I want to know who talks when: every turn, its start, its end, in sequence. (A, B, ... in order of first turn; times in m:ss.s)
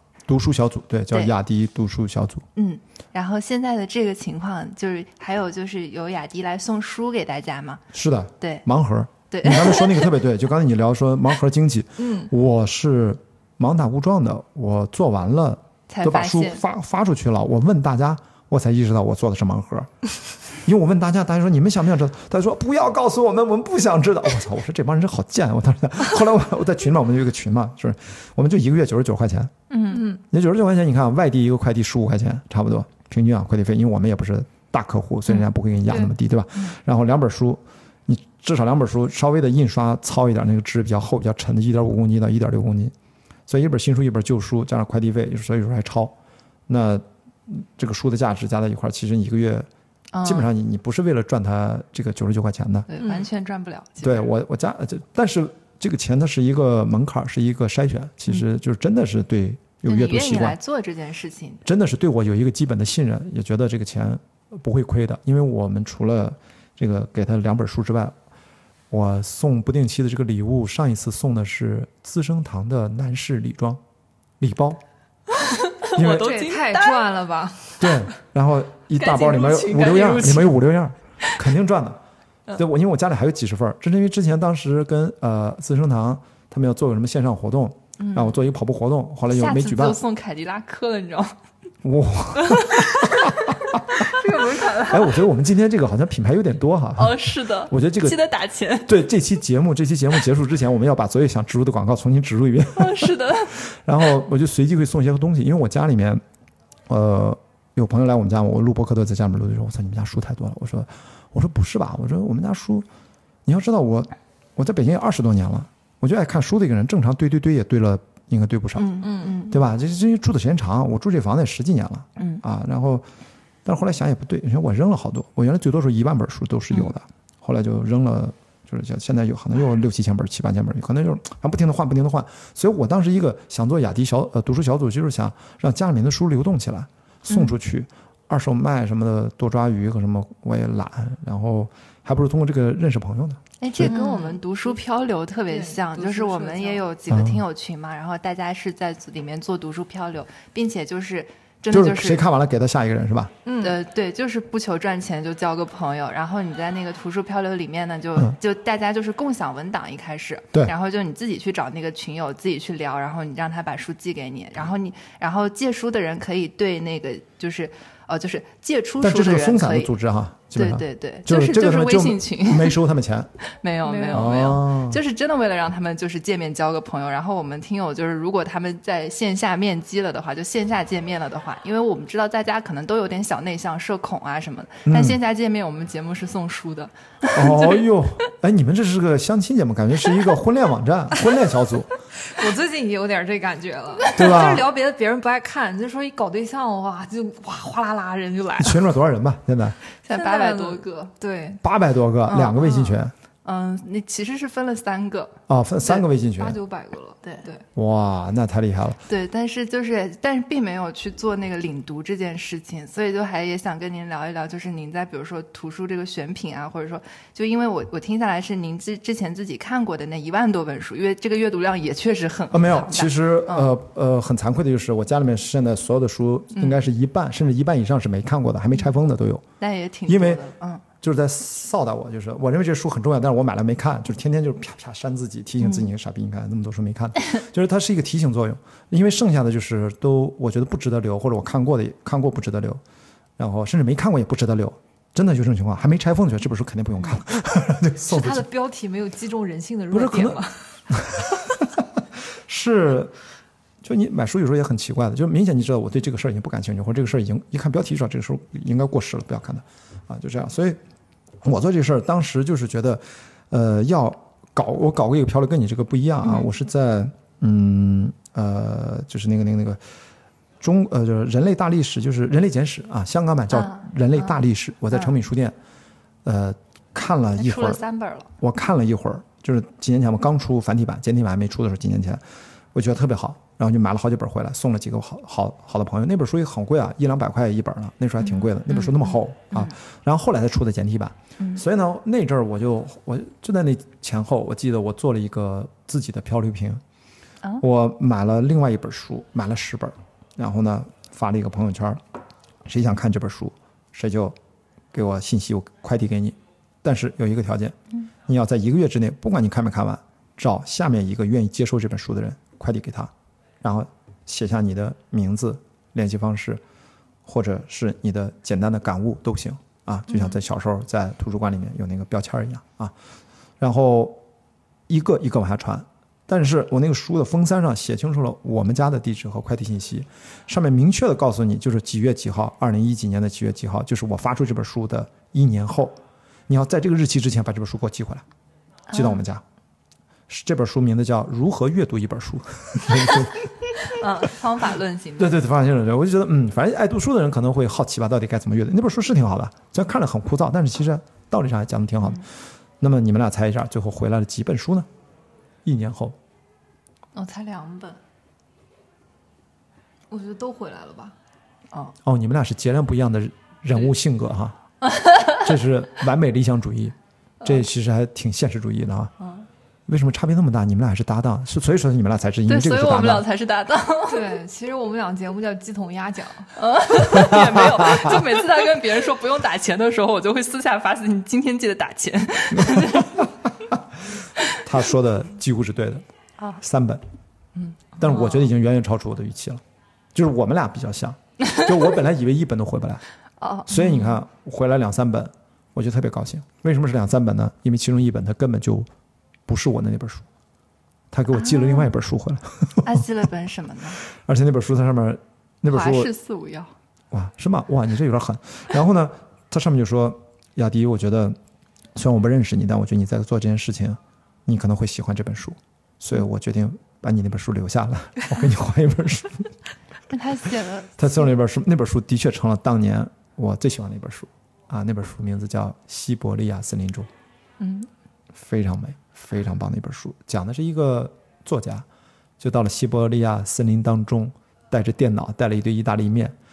0:00.3-0:02.4 A
0:02.5-0:07.8 B
0:07.9-0:19.9 A
0:08.4-0:08.6 B
0:09.3-0:10.1 B
0:12.0-0:12.3 C
0:15.9-0:16.6 B
0:20.6-0:29.5 A
0:29.7-0:30.1 B
0:29.9-0:30.2 C
0:30.3-0:42.9 A
0:35.9-0:36.1 C
0:43.5-0:46.1 A
0:46.7-0:49.6 A
0:50.1-0:50.5 B
0:50.2-0:52.9 A
0:52.9-0:54.3 B
0:54.0-1:00.6 A
0:59.8-1:01.6 B
1:01.6-1:08.1 A
1:08.9-1:13.8 A
1:14.4-1:14.8 A
1:15.8-1:17.1 B
1:16.0-1:16.3 A
1:16.0-1:18.0 C
1:17.8-1:22.0 A
1:19.0-1:20.5 B
1:22.5-1:30.0 A
1:28.0-1:28.4 B
1:29.3-1:31.4 B
1:31.8-1:33.8 A
1:32.6-1:33.3 B
1:33.9-1:34.8 B
1:34.0-1:35.1 C
1:34.9-1:38.2 A
1:37.0-1:38.9 B
1:38.8-1:46.2 A
1:42.7-1:43.6 B
1:46.9-1:52.8 A
1:53.4-2:03.0 A
1:58.8-1:59.6 B
1:59.0-1:59.4 C
2:02.2-2:02.4 B
2:03.6-2:24.0 A
2:23.6-2:32.2 B
2:23.8-2:24.4 C
2:25.5-2:26.8 C
2:27.1-2:27.4 A
2:31.7-2:33.3 A
2:33.4-2:33.8 C
2:33.6-2:49.9 B
2:49.0-2:53.3 A
2:50.5-2:52.8 B
2:53.6-3:07.7 B
2:53.8-2:54.3 C
2:54.1-2:55.0 A
3:04.8-3:05.2 A
3:07.3-3:11.9 A
3:12.3-3:18.9 C
3:14.0-3:14.4 B
3:14.1-3:14.7 A
3:18.6-3:19.8 A
3:20.0-3:21.1 B
3:20.1-3:21.6 C
3:21.6-3:23.1 A
3:22.3-3:25.4 B
3:25.5-3:26.6 A
3:26.4-3:27.6 C
3:27.7-3:29.0 A
3:29.1-3:43.7 B
3:42.5-3:49.4 A
3:49.6-3:50.8 B
3:50.1-3:50.4 A
3:51.0-4:02.8 A
3:55.6-3:55.9 B
4:03.4-4:08.5 A
4:08.1-4:10.7 C
4:09.9-4:13.1 A
4:13.8-4:20.8 A
4:21.4-4:29.8 A
4:26.2-4:26.5 B
4:30.6-4:35.5 A
4:33.5-4:34.3 B
4:36.2-4:37.8 A
4:37.4-4:38.3 B
4:38.4-4:42.2 A
4:42.7-4:56.8 A
4:48.2-4:49.7 B
4:57.6-5:02.0 A
5:02.6-5:04.3 A
5:04.9-5:13.1 A
5:13.6-5:16.6 A
5:17.2-5:22.9 A
5:23.6-5:24.2 A
5:24.9-5:36.0 A
5:36.5-5:38.2 A
5:38.9-5:39.2 B
5:38.9-5:39.4 A
5:40.3-5:43.5 A
5:44.0-5:45.4 B
5:45.2-5:52.2 A
5:52.8-5:54.9 A
5:55.6-5:56.2 A
5:57.1-5:58.0 B
6:00.1-6:01.1 C
6:02.0-6:04.6 A
6:05.0-6:05.3 B
6:05.3-6:09.1 A
6:09.9-6:13.2 A
6:12.5-6:14.3 B
6:14.1-6:16.5 C
6:16.6-6:23.3 B
6:17.2-6:18.2 A
6:22.7-6:23.1 A
6:24.6-6:26.0 A
6:26.6-6:27.0 A
6:27.6-6:28.5 B
6:28.0-6:29.6 A
6:30.1-6:33.0 A
6:33.4-6:34.2 B
6:33.7-6:38.9 A
6:39.5-6:40.2 A
6:41.1-6:43.0 A
6:41.3-6:41.9 B
6:42.8-6:44.0 B
6:44.2-6:46.1 A
6:45.7-6:46.7 B
6:47.1-6:51.4 A
6:52.0-6:59.5 A
7:00.1-7:01.2 B
7:01.0-7:07.1 A
7:07.6-7:07.9 B
7:08.3-7:11.8 A
7:12.4-7:16.3 A